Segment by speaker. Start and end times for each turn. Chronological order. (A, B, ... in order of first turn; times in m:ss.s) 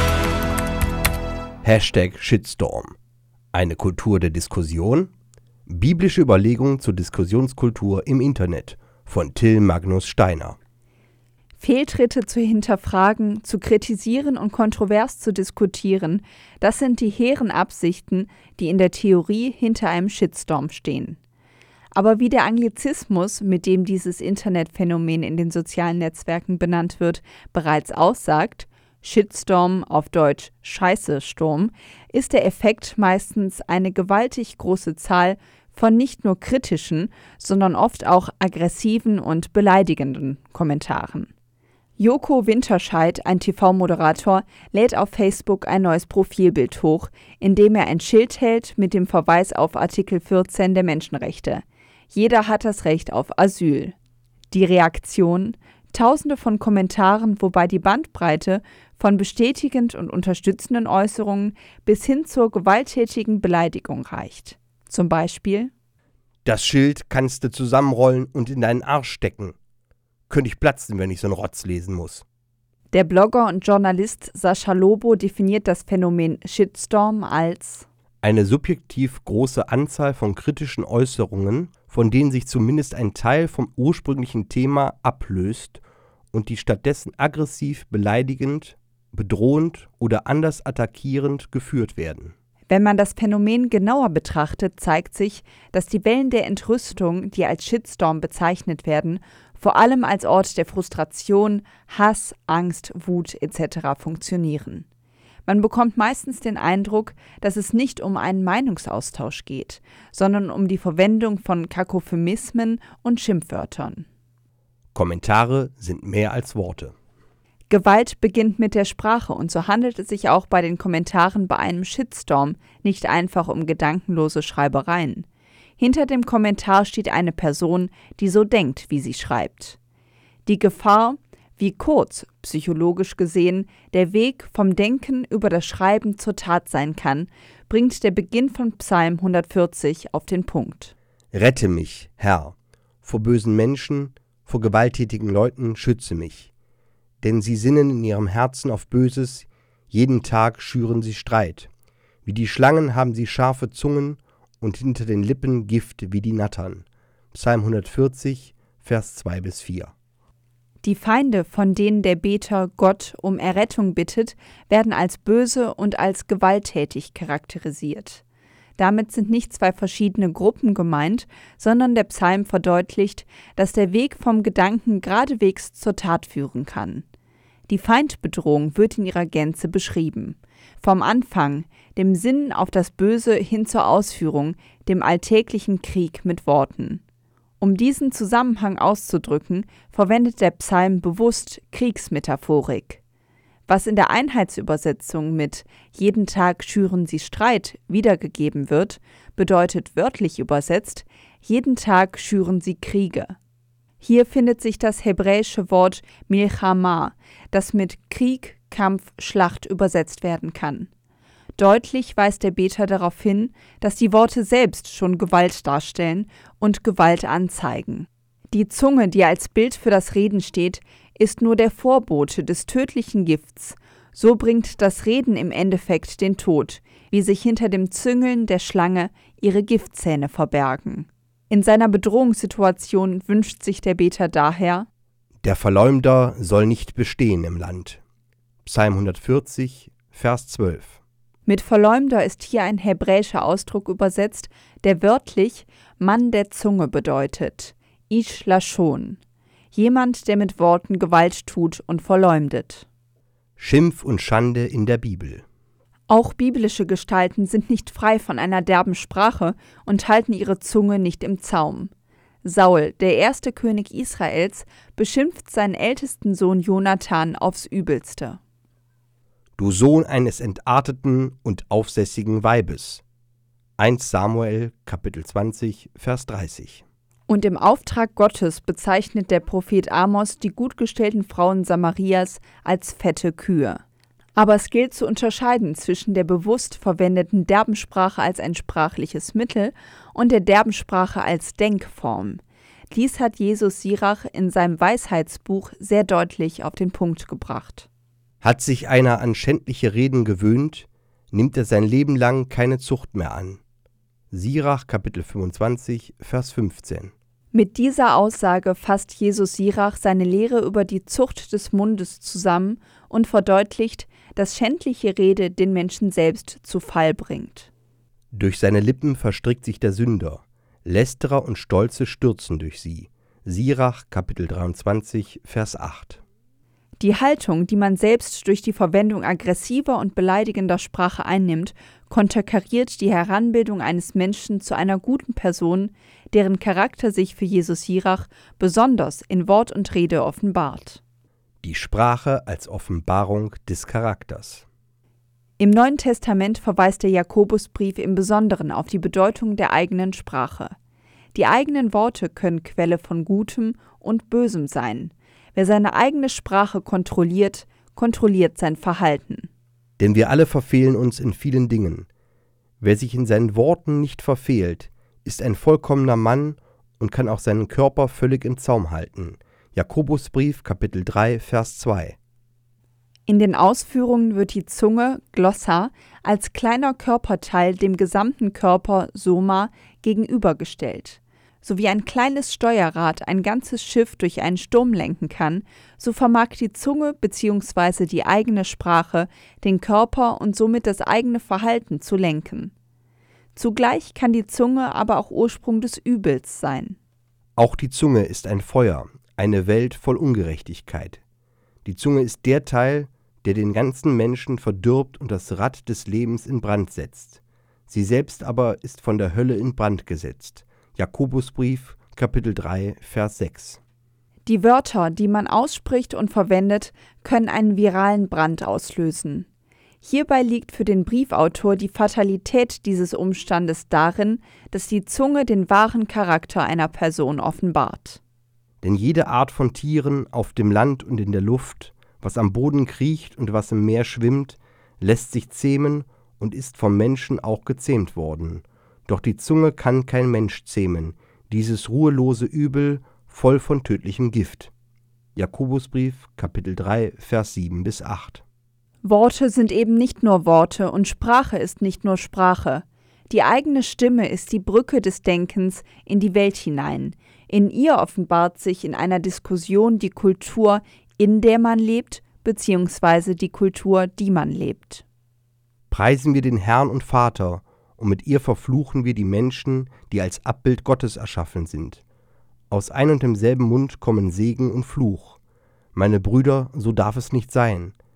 0:01.6-0:03.0 A
0:03.5-0:05.1 A
0:05.7-0:10.6 A
0:11.6-0:21.2 B
0:21.9-0:41.3 B
0:42.0-0:54.0 B
0:54.5-1:05.7 B
1:06.4-1:09.6 A
1:10.3-1:12.2 A
1:12.9-1:17.9 B
1:18.2-1:25.8 A
1:26.3-1:32.3 A
1:32.7-1:44.9 B
1:45.5-1:54.1 B
1:55.0-1:56.9 A
1:57.7-2:05.3 B
2:05.8-2:09.8 B
2:10.5-2:20.9 B
2:21.3-2:26.5 A
2:27.2-2:31.7 A
2:32.3-2:39.9 A
2:40.8-2:48.2 B
2:48.8-2:57.0 B
2:57.7-3:07.0 B
3:07.6-3:13.0 B
3:13.7-3:23.4 B
3:24.0-3:30.9 B
3:31.6-3:54.9 B
3:55.4-3:58.0 A
3:58.6-4:01.0 A
4:01.5-4:09.2 B
4:09.7-4:12.9 B
4:13.6-4:15.4 A
4:16.1-4:21.9 B
4:22.4-4:28.4 B
4:29.6-4:33.0 A
4:33.8-4:36.8 A
4:37.3-4:43.8 B
4:44.4-4:57.9 B
4:58.4-5:03.6 A
5:04.3-5:07.1 A
5:07.5-5:17.7 B
5:18.3-5:26.2 A
5:27.0-5:41.0 B
5:41.6-5:44.6 A
5:45.6-5:50.8 B
5:51.3-5:59.5 B
6:00.0-6:02.1 A
6:02.8-6:12.2 A
6:13.3-6:32.7 B
6:33.6-6:37.0 B
6:37.6-6:41.2 A
6:41.8-6:53.8 A
6:54.5-6:59.5 B
7:00.0-7:08.2 B
7:08.8-7:24.7 A
7:25.4-7:28.4 A
7:29.0-7:45.0 B
7:45.9-7:52.0 A
7:52.7-7:55.4 A
7:56.0-7:58.0 A